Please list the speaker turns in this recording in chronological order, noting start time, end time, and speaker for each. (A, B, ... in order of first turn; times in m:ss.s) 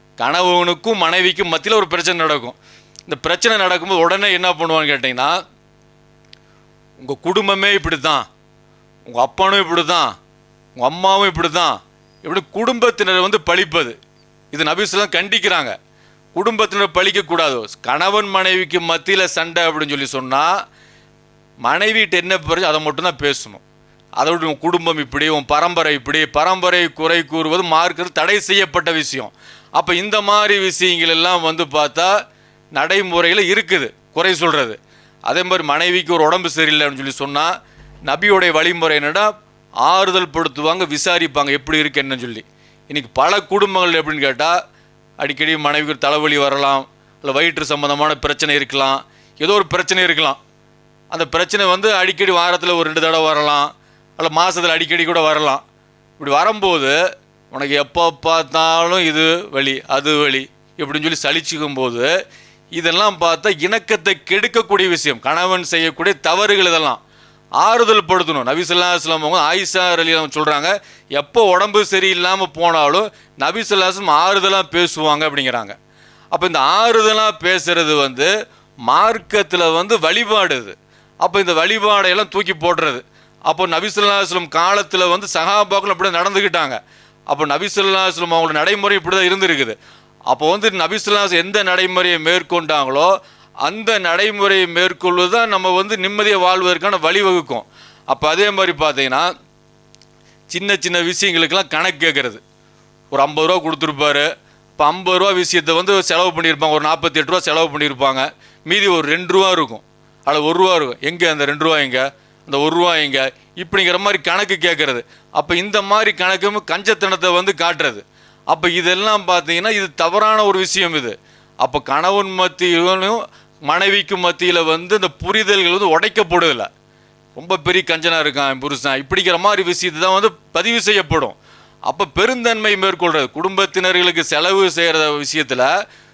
0:00.2-0:02.6 A
0:03.1-0:05.4 A
0:07.0-0:08.3 A
0:09.1-0:10.1 A
0:10.8-0:14.0 A
0:14.5-0:15.8 A
0:16.3-0:20.5 A
0:21.6-0:23.6 A
0:24.2-0:32.1 A
0:32.8-0:37.5 A
0:38.1-0:39.3 A
0:39.9-0:44.5 A
0:45.2-0:50.4 A
0:51.1-0:55.6 A
0:56.2-0:57.0 A
0:57.5-1:02.1 A
1:02.8-1:07.0 A
1:07.6-1:15.8 A
1:16.3-1:18.3 A
1:18.9-1:26.8 A
1:27.3-1:29.8 A
1:30.3-1:33.1 A
1:33.7-1:39.3 A
1:40.5-1:42.4 A
1:43.1-2:06.7 A
2:07.4-2:11.4 A
2:11.9-2:15.7 A